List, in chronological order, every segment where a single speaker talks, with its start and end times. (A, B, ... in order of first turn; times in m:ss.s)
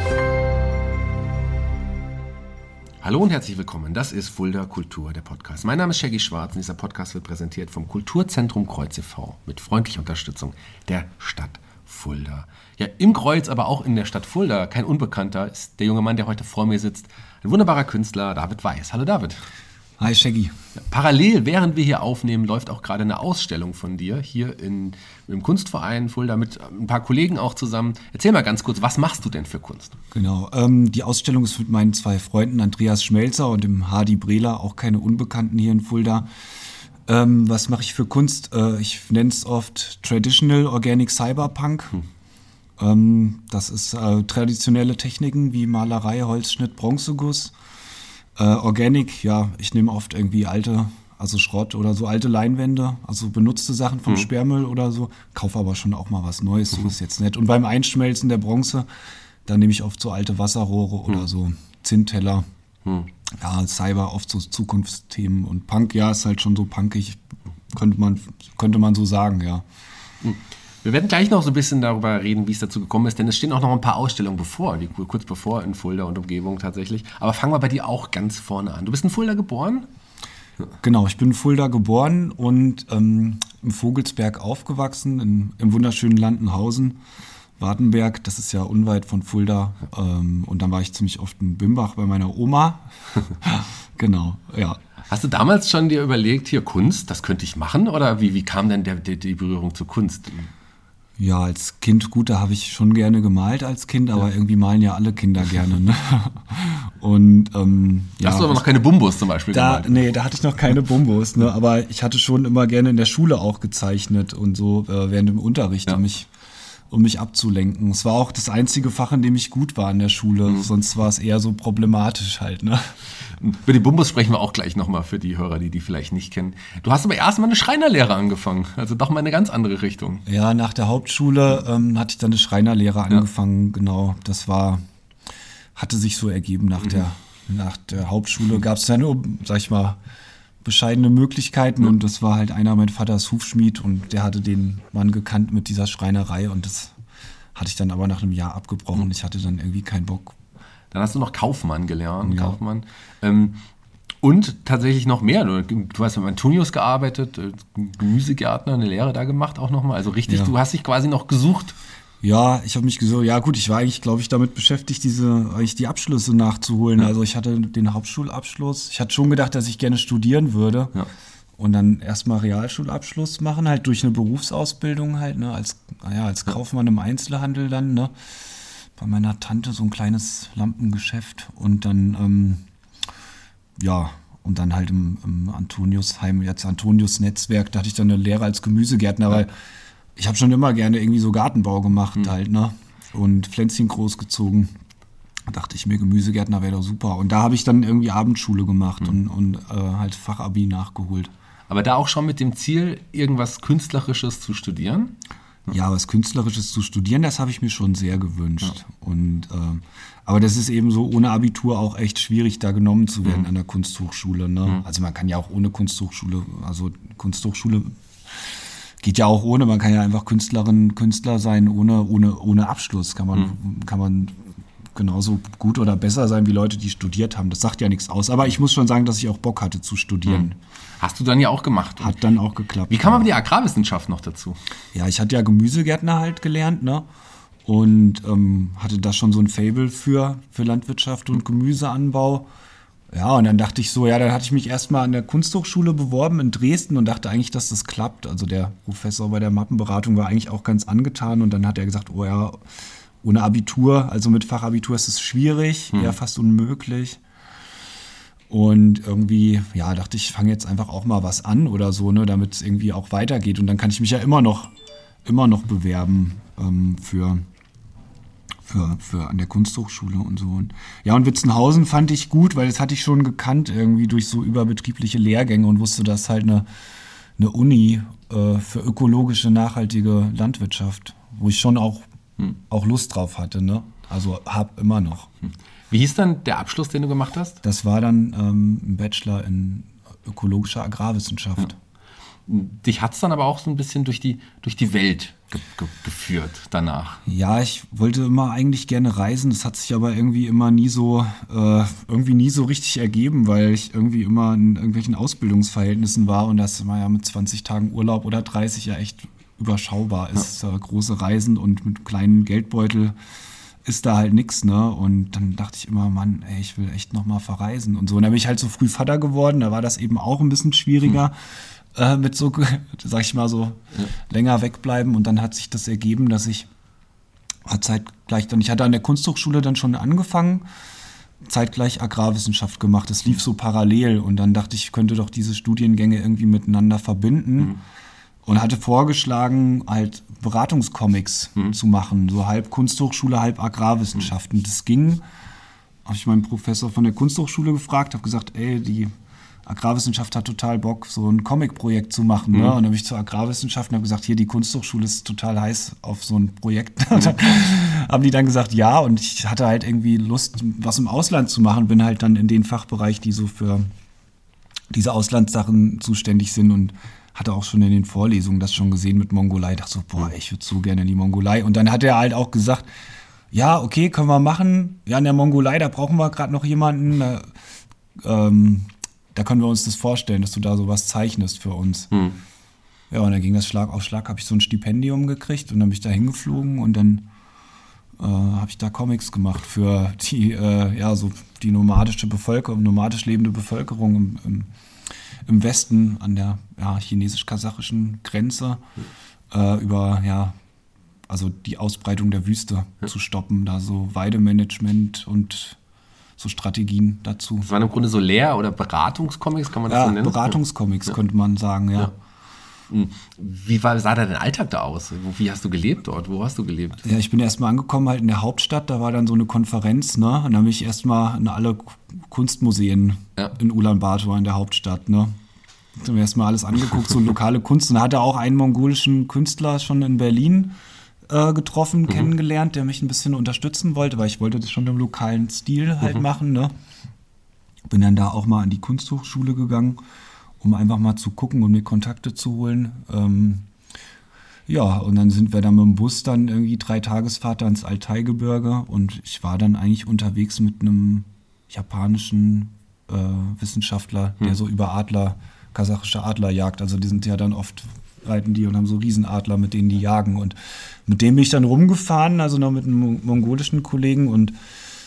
0:03.0-0:19.4 A
0:20.0-0:20.5 B
0:20.8-0:30.0 A
0:30.1-0:36.3 B
0:37.1-0:42.0 B
0:42.8-0:47.5 B
0:48.4-0:58.9 B
0:59.5-1:02.5 B
1:03.4-1:07.2 B
1:07.7-1:09.6 B
1:10.2-1:19.9 A
1:20.8-1:27.0 B
1:27.6-1:34.8 B
1:35.1-1:40.5 A
1:41.2-1:48.6 B
1:48.2-1:50.1 A
1:49.5-1:56.3 B
1:56.9-2:03.0 B
2:03.4-2:10.2 A
2:10.3-2:14.8 B
2:15.8-2:20.0 B
2:20.6-2:27.0 B
2:27.6-2:30.4 B
2:30.9-2:33.6 A
2:32.2-2:32.6 B
2:34.2-2:41.8 A
2:40.3-2:40.5 B
2:42.2-2:51.0 B
2:51.6-2:58.3 B
2:59.0-3:02.7 B
3:03.8-3:09.6 B
3:10.2-3:14.7 B
3:15.5-3:21.3 B
3:21.7-3:25.2 A
3:25.7-3:50.6 B
3:51.0-3:52.2 A
3:52.0-3:53.3 B
3:52.9-3:54.6 A
3:54.9-3:57.1 B
3:57.6-4:02.5 B
4:03.1-4:12.6 B
4:13.2-4:17.2 B
4:18.5-4:24.7 B
4:25.2-4:27.4 B
4:28.6-4:36.7 B
4:37.4-4:45.3 B
4:45.9-4:47.6 A
4:47.6-4:51.8 B
4:52.5-4:57.2 A
4:57.3-5:13.2 B
5:13.8-5:26.7 B
5:27.7-5:30.6 B
5:31.4-5:37.8 B
5:38.4-5:45.2 B
5:46.0-5:49.1 B
5:49.7-6:03.9 B
6:04.9-6:12.8 B
6:13.5-6:17.5 B
6:18.2-6:22.1 B
6:22.1-6:22.4 A
6:23.1-6:27.3 B
6:28.2-6:34.7 B
6:35.5-6:38.8 B
6:39.5-6:40.6 B
6:41.3-6:45.8 B
6:46.4-6:47.7 B
6:47.6-6:50.6 A
6:49.9-6:52.1 B
6:52.9-6:57.1 A
6:57.0-7:05.3 B
7:06.0-7:10.8 B
7:11.3-7:16.7 B
7:17.9-7:20.0 B
7:20.6-7:23.7 B
7:24.7-7:44.6 B